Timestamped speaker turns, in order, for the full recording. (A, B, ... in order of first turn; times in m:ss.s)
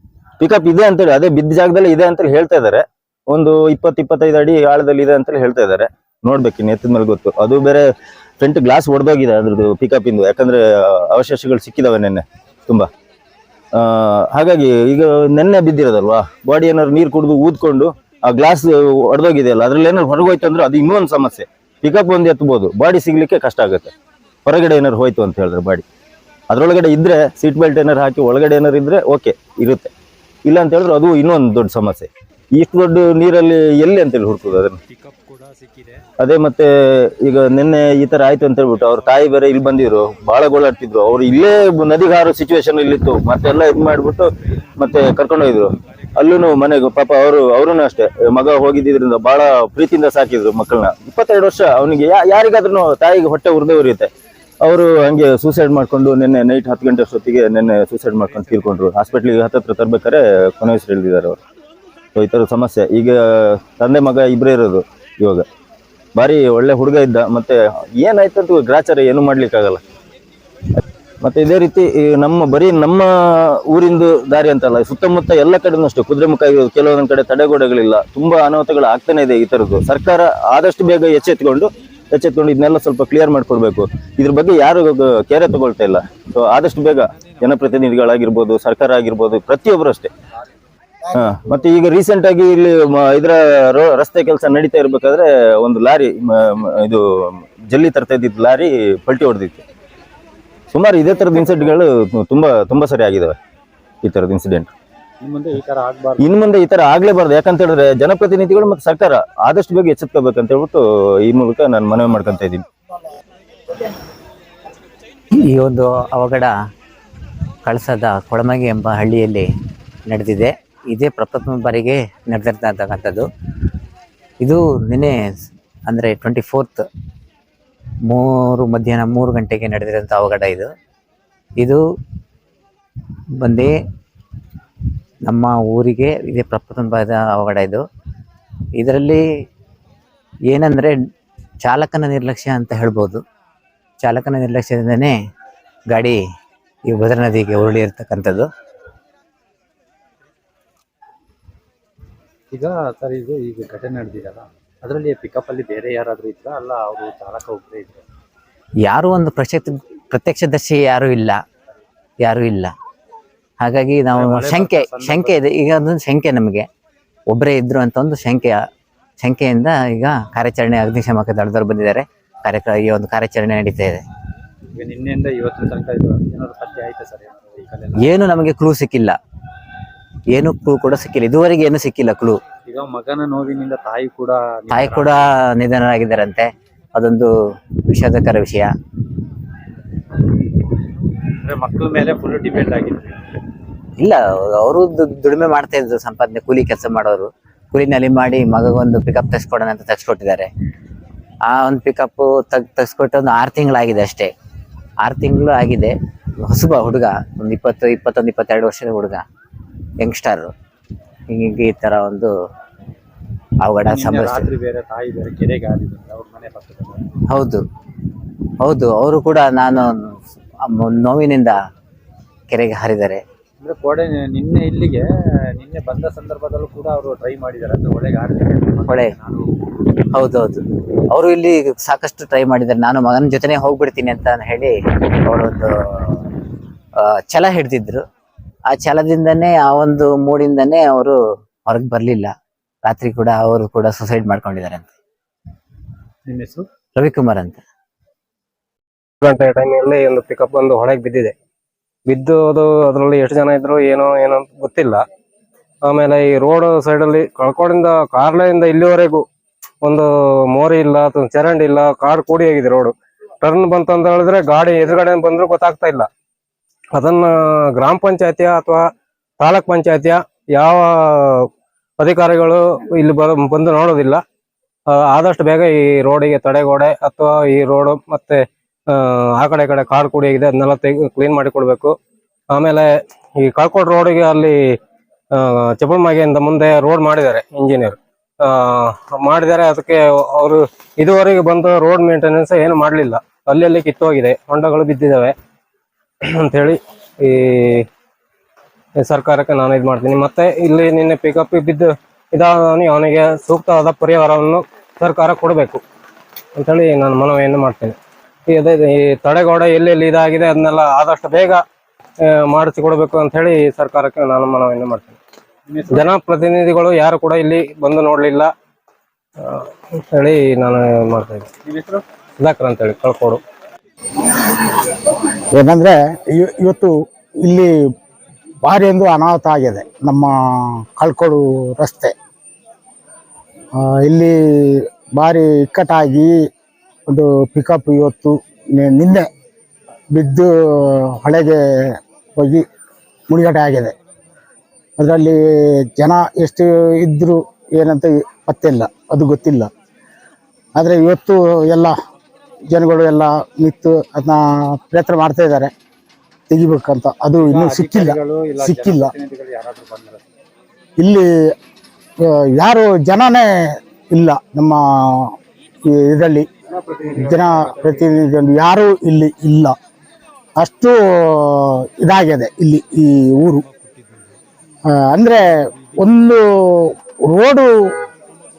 0:00.4-0:07.9 A
0:08.4-0:12.9 A
0:13.8-0:23.9 A
0:24.5-0:25.8 A
0:26.5-0:29.9 A
0:30.5-0:34.8 A
0:34.9-0:36.0 B
0:36.2-0:36.7 A
0:37.2-0:54.1 A
0:38.8-0:39.4 B
0:54.6-1:01.4 A
0:58.3-0:58.8 B
1:02.2-1:05.5 A
1:06.2-1:09.8 A
1:11.2-1:13.1 A
1:13.7-1:30.1 A
1:31.1-1:37.0 A
1:37.7-1:39.6 A
1:40.7-1:43.4 A
1:44.0-1:44.7 A
1:45.2-1:46.3 B
1:46.2-1:52.6 A
1:55.4-1:56.5 C
1:57.7-1:59.5 C
2:00.1-2:03.3 C
2:04.4-2:05.2 C
2:05.9-2:06.8 C
2:08.1-2:10.7 C
2:13.4-2:13.7 C
2:15.3-2:17.8 C
2:18.8-2:19.2 C
2:20.5-2:21.0 C
2:21.6-2:23.2 C
2:24.0-2:25.2 C
2:25.9-2:26.2 C
2:26.9-2:28.5 C
2:32.5-2:38.0 B
2:38.8-2:41.4 C
2:42.2-2:42.7 C
2:43.6-2:46.7 C
2:44.1-2:45.4 B
2:47.3-2:48.6 C
2:49.2-2:54.0 C
2:54.8-2:58.1 B
2:58.0-2:59.2 C
3:00.3-3:02.4 C
3:02.7-3:05.3 B
3:04.7-3:07.3 C
3:07.9-3:08.7 C
3:11.4-3:13.2 B
3:14.0-3:20.5 C
3:21.5-3:24.3 C
3:25.0-3:29.2 C
3:30.0-3:30.5 C
3:31.3-3:32.3 C
3:33.6-3:34.4 C
3:33.8-3:37.0 B
3:37.3-3:37.6 C
3:38.6-3:41.6 C
3:42.5-3:43.2 C
3:43.6-3:45.0 B
3:45.6-3:49.4 B
3:50.2-3:56.2 C
3:57.0-3:58.0 C
3:58.7-4:01.2 C
4:01.7-4:02.3 C
4:02.8-4:04.9 C
4:06.3-4:06.7 B
4:07.0-4:07.6 C
4:09.2-4:11.3 D
4:12.1-4:15.0 D
4:15.9-4:19.2 D
4:19.8-4:26.1 D
4:27.0-4:28.9 D
4:29.4-4:31.5 D
4:32.0-4:34.2 D
4:34.9-4:38.4 D
4:38.9-4:42.0 D
4:42.6-4:44.6 D
4:45.4-4:55.3 D
4:56.3-4:57.9 D
4:59.0-5:05.8 D
5:06.6-5:08.0 D
5:08.5-5:11.6 D
5:12.3-5:15.2 D
5:15.7-5:16.1 B
5:15.9-5:18.5 D
5:19.4-5:21.5 D
5:21.7-5:22.0 B
5:22.4-5:23.4 D
5:25.5-5:27.7 E
5:28.6-5:32.1 E
5:33.8-5:36.3 E
5:37.1-5:39.3 E
5:40.1-5:42.7 E
5:43.3-5:44.0 E
5:45.0-5:45.4 E
5:46.0-5:49.7 E
5:50.8-5:52.0 E
5:52.7-5:55.7 E
5:56.5-5:59.1 E
5:57.4-6:00.4 B
6:01.0-6:01.3 E
6:02.2-6:03.5 E
6:04.1-6:05.3 E
6:05.9-6:06.5 E
6:06.7-6:08.0 D
6:07.1-6:09.8 E
6:10.6-6:13.6 E
6:13.6-6:14.4 B
6:14.9-6:17.7 E
6:15.6-6:16.0 B